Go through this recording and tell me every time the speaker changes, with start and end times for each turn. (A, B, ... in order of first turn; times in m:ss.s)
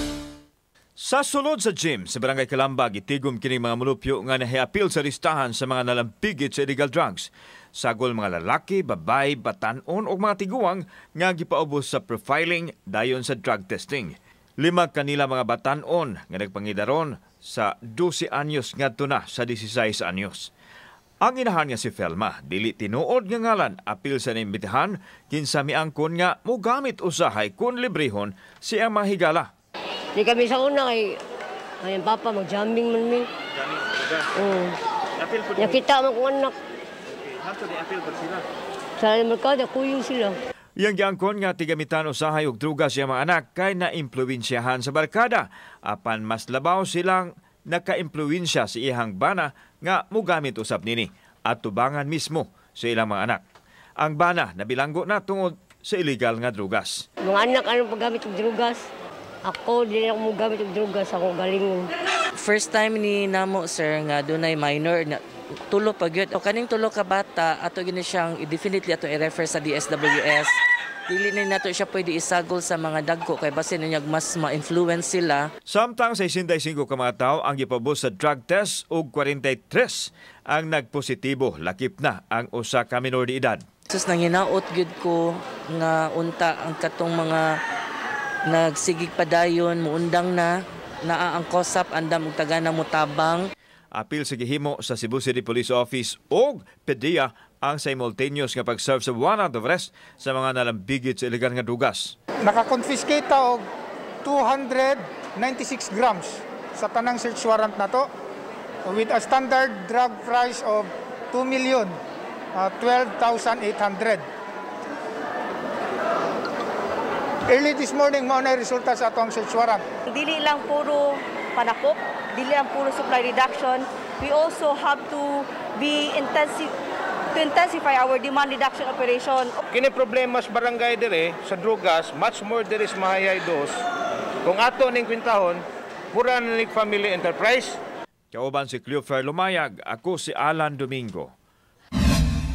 0:01.0-0:20.5 A
0:21.2-0:29.5 A
0:30.1-0:31.2 B
0:31.8-0:33.3 B
0:34.4-0:34.8 B
0:35.5-0:36.5 B
0:39.0-0:40.4 B
0:40.8-0:53.4 A
0:54.0-0:57.0 A
0:57.2-0:58.8 B
0:59.4-1:01.9 B
1:02.3-1:10.5 C
1:11.1-1:15.5 C
1:15.7-1:23.6 A
1:23.9-1:27.4 C
1:28.5-1:33.5 C
1:33.9-1:42.1 A
1:42.4-1:43.6 D
1:44.2-1:48.1 D
1:48.8-1:51.9 D
1:52.5-1:54.2 D
1:57.5-1:59.8 D
2:00.1-2:06.7 E
2:07.3-2:09.6 E
2:09.7-2:13.8 F
2:14.4-2:17.8 F
2:18.3-2:21.3 A